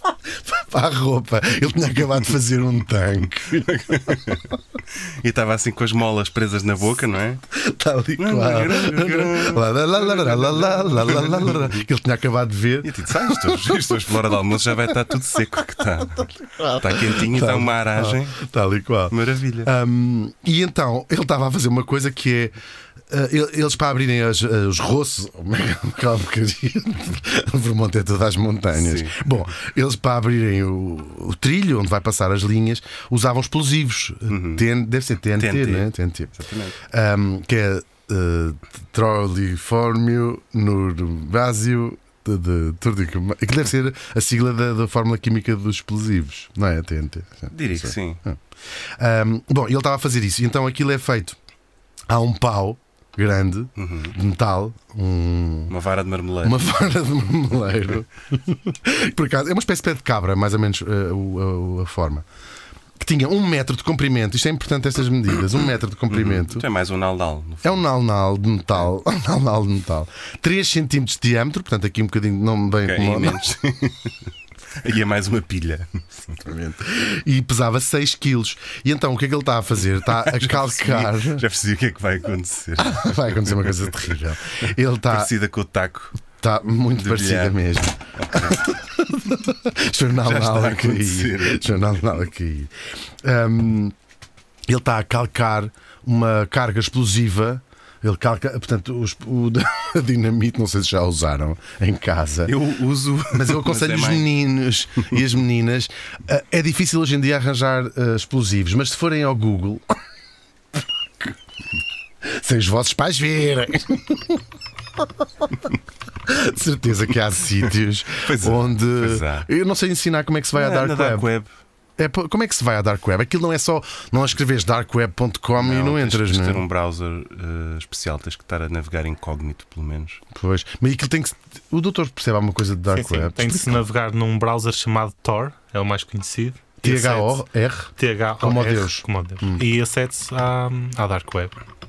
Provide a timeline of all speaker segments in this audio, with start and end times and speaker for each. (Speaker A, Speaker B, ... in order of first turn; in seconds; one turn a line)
Speaker A: 0.4-4.3
Speaker B: 3.7-7.4
Speaker A: 7.5-14.1
Speaker B: 8.2-11.8
Speaker B: 12.8-18.4
Speaker A: 16.2-22.5
Speaker B: 19.1-19.7
Speaker A: 23.1-48.4
Speaker B: 28.7-29.2
Speaker B: 34.3-34.6
Speaker B: 35.4-36.7
Speaker B: 47.5-48.2
Speaker A: 49.0-51.4
Speaker A: 52.1-55.7
Speaker B: 53.8-54.1
Speaker B: 55.7-56.6
Speaker A: 56.4-62.2
Speaker A: 63.0-66.7
Speaker B: 66.1-67.9
Speaker A: 67.6-73.4
Speaker B: 72.8-76.3
Speaker A: 76.4-81.4
Speaker B: 80.0-83.9
Speaker A: 82.8-85.3
Speaker B: 85.1-86.2
Speaker A: 86.4-93.9
Speaker B: 87.0-87.6
Speaker B: 88.2-88.6
Speaker B: 90.2-92.1
Speaker A: 94.7-102.6
Speaker B: 102.5-104.3
Speaker A: 103.3-109.8
Speaker A: 112.2-114.4
Speaker A: 116.2-121.3
Speaker B: 118.2-119.5
Speaker B: 120.5-121.5
Speaker A: 122.0-126.6
Speaker B: 125.6-130.2
Speaker A: 130.3-133.8
Speaker C: 132.9-137.4
Speaker A: 136.8-139.6
Speaker C: 138.0-141.6